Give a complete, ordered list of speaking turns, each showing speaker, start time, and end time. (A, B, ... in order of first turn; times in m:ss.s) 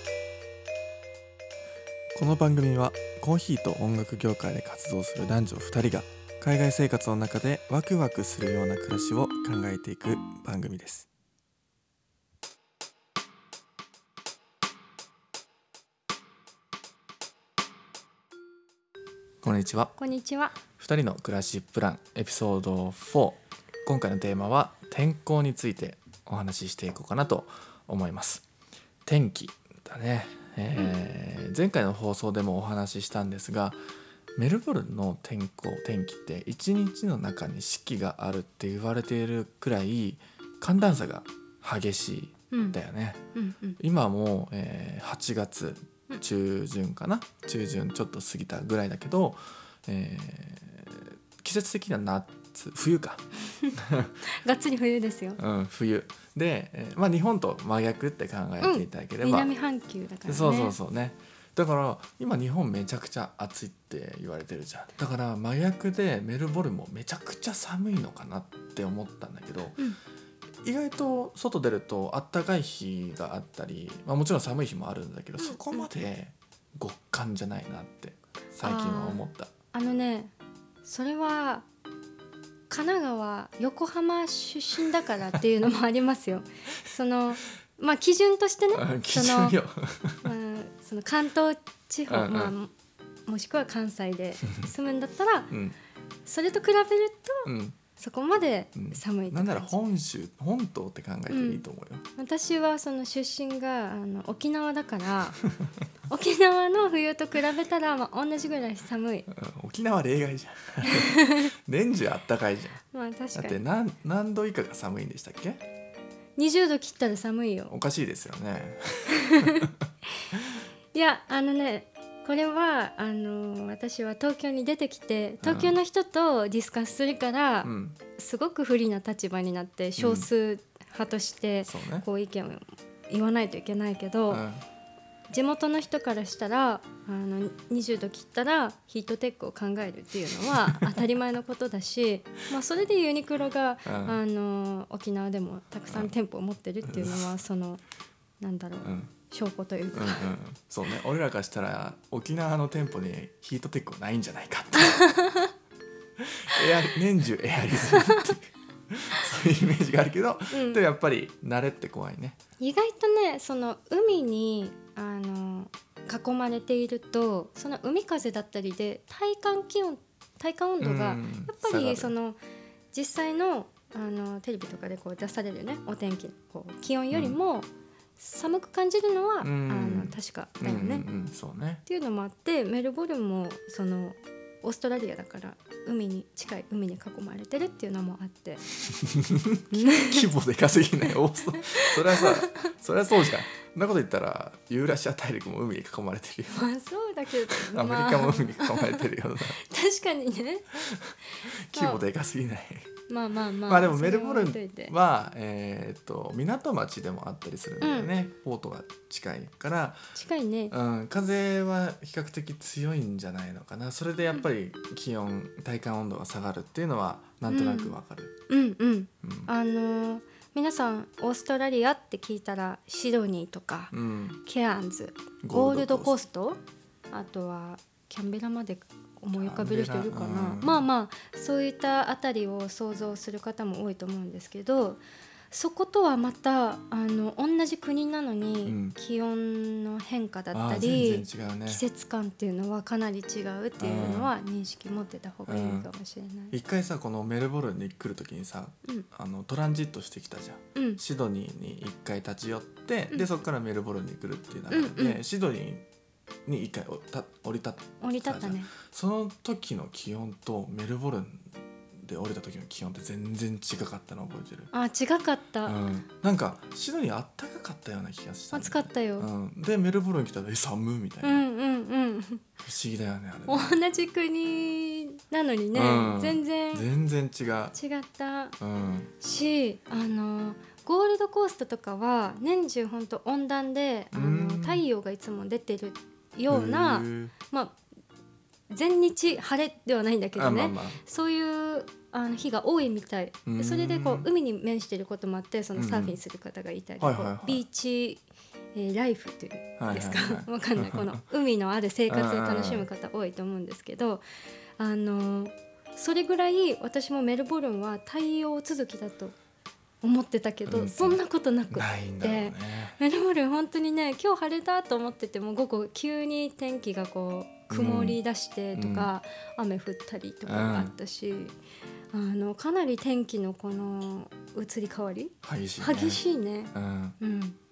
0:02.1-0:11.1 A
0:19.4-0:19.9 A
0:20.0-0:20.6 B
0:20.8-0:28.4 A
0:29.0-0:33.8 A
0:34.4-0:43.2 A
0:42.5-0:42.8 B
0:43.3-0:43.8 B
0:43.8-0:54.2 A
0:53.5-0:55.4 B
0:55.4-0:59.5 A
0:58.6-1:00.8 B
1:00.2-1:09.8 A
1:10.6-1:19.5 A
1:15.4-1:15.9 B
1:18.6-1:20.3 B
1:20.8-1:21.6 B
1:22.7-1:29.6 B
1:28.7-1:30.3 A
1:30.2-1:32.7 B
1:32.1-1:32.5 A
1:33.3-1:35.5 B
1:35.5-1:35.8 A
1:36.2-1:39.8 B
1:37.4-1:37.8 A
1:38.7-1:42.0 A
1:41.3-1:41.6 B
1:42.2-1:45.4 B
1:46.1-1:49.3 B
1:49.3-1:52.8 A
1:50.8-1:51.5 B
1:52.9-1:53.6 B
1:53.3-1:55.6 A
1:56.4-1:57.7 B
1:57.7-1:59.7 A
1:59.3-1:59.7 B
2:00.9-2:14.4 B
2:05.4-2:05.8 A
2:07.6-2:08.0 A
2:10.0-2:10.3 A
2:11.6-2:12.0 A
2:14.3-2:14.6 A
2:15.3-2:27.8 B
2:20.5-2:20.9 A
2:23.8-2:24.2 A
2:26.8-2:27.2 A
2:28.4-2:30.3 B
2:28.8-2:29.1 A
2:29.9-2:35.0 A
2:34.8-2:35.5 B
2:36.2-2:42.4 A
2:37.8-2:38.3 B
2:40.5-2:40.8 B
2:42.6-2:52.4 B
2:50.8-2:52.1 A
2:52.9-3:01.0 B
2:59.4-3:01.8 A
3:01.8-3:08.6 B
3:08.8-3:16.7 A
3:09.7-3:10.3 B
3:11.0-3:12.6 B
3:16.5-3:20.7 B
3:17.4-3:19.6 A
3:20.8-3:22.9 A
3:21.7-3:22.0 B
3:23.1-3:24.9 B
3:23.6-3:30.0 A
3:27.8-3:28.1 B
3:30.1-3:30.7 B
3:30.7-3:38.3 A
3:37.5-3:38.0 B
3:38.5-3:43.9 B
3:39.2-3:39.5 A
3:43.9-3:44.4 A
3:44.4-3:46.6 B
3:45.4-3:46.2 A
3:47.1-4:06.5 B
3:49.3-3:50.8 A
3:58.6-3:59.0 A
4:00.5-4:01.8 A
4:03.8-4:04.3 A
4:05.5-4:05.9 A
4:06.5-4:15.8 A
4:10.7-4:11.0 B
4:14.7-4:15.2 B
4:16.4-4:24.7 A
4:18.0-4:18.7 B
4:24.7-4:25.8 B
4:25.6-4:31.4 A
4:28.5-4:29.3 B
4:31.2-4:32.4 B
4:32.6-4:33.8 A
4:33.5-4:36.8 B
4:35.7-4:37.8 A
4:37.7-4:38.6 B
4:38.6-4:39.1 A
4:39.2-4:47.8 B
4:44.1-4:44.8 A
4:46.5-4:47.3 A
4:48.7-4:58.2 B
4:50.4-4:51.0 A
4:53.4-4:54.3 A
4:55.8-4:56.2 A
4:57.0-4:57.6 A
4:58.7-5:04.2 B
4:59.8-5:01.2 A
5:02.1-5:02.9 A
5:04.8-5:09.3 B
5:10.0-5:21.5 B
5:10.7-5:11.2 A
5:11.7-5:13.0 A
5:17.7-5:18.2 A
5:18.7-5:19.1 A
5:20.5-5:20.9 A
5:22.1-5:27.6 B
5:25.4-5:26.2 A
5:26.7-5:27.2 A